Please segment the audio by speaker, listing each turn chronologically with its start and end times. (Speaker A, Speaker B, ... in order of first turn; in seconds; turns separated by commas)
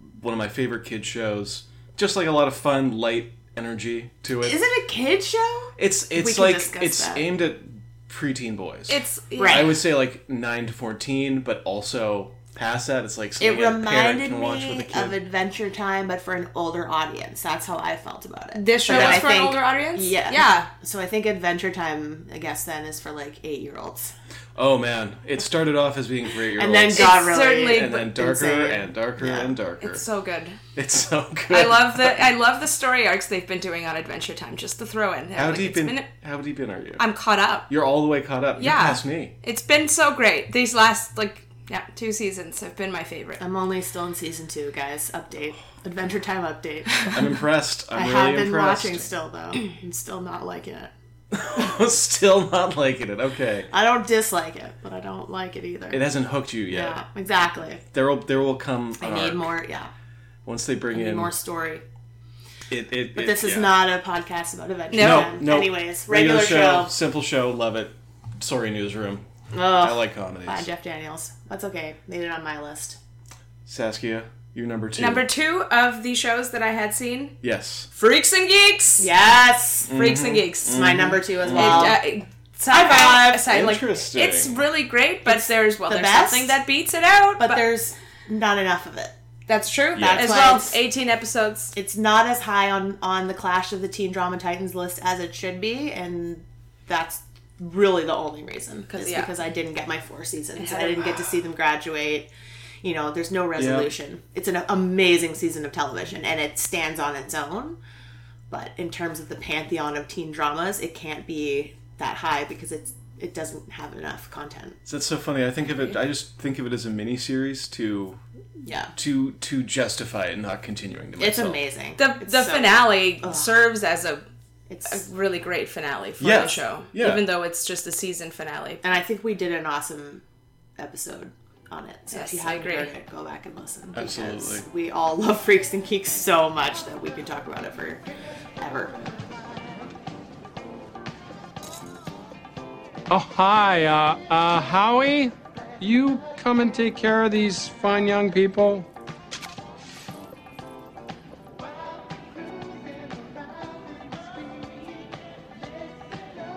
Speaker A: 0.2-4.6, Speaker B: 4.4-7.2, Speaker A: 5.8-15.2, Speaker C: 8.9-9.7, Speaker B: 9.4-9.8, Speaker B: 13.4-24.1, Speaker C: 18.6-20.7, Speaker A: 18.9-19.3, Speaker A: 24.6-30.0, Speaker B: 26.6-29.5, Speaker C: 26.9-28.1, Speaker C: 29.8-30.6, Speaker A: 30.8-32.2, Speaker C: 31.5-36.1, Speaker A: 35.4-37.0, Speaker C: 37.0-37.7, Speaker A: 37.7-39.3, Speaker C: 38.6-43.4, Speaker B: 43.4-47.1, Speaker A: 47.1-49.1, Speaker B: 48.0-50.9, Speaker A: 51.3-53.7, Speaker B: 53.7-56.0, Speaker A: 55.9-57.0, Speaker B: 56.7-57.8, Speaker A: 57.9-59.6, Speaker B: 59.0-59.9, Speaker A: 60.5-61.3, Speaker B: 60.9-61.8, Speaker A: 62.7-63.8, Speaker B: 63.1-66.9, Speaker C: 64.9-65.3, Speaker A: 64.9-69.2, Speaker B: 69.5-73.0, Speaker A: 69.8-70.7, Speaker A: 73.7-75.3, Speaker C: 75.0-77.3, Speaker A: 77.4-77.9, Speaker C: 77.9-79.1, Speaker B: 79.0-79.9, Speaker A: 79.9-82.0, Speaker C: 79.9-80.8, Speaker B: 80.7-82.0, Speaker C: 81.5-87.6, Speaker B: 82.7-83.6, Speaker A: 83.5-84.6, Speaker B: 85.2-86.6, Speaker B: 87.4-89.1, Speaker C: 89.5-91.7, Speaker A: 90.0-90.5, Speaker B: 90.0-90.8, Speaker B: 91.7-102.3, Speaker C: 98.9-99.3, Speaker C: 100.6-101.2, Speaker B: 102.8-107.8, Speaker A: 103.6-103.9, Speaker B: 108.5-114.8, Speaker A: 114.9-118.2, Speaker B: 118.6-118.9, Speaker A: 119.0-121.6, Speaker B: 121.2-123.5, Speaker C: 122.0-124.2, Speaker B: 124.7-125.1, Speaker C: 124.9-128.8, Speaker A: 126.2-127.2, Speaker B: 128.8-130.2, Speaker B: 130.8-138.0, Speaker C: 132.1-132.9, Speaker A: 133.9-134.7, Speaker B: 138.6-138.9, Speaker D: 143.1-148.8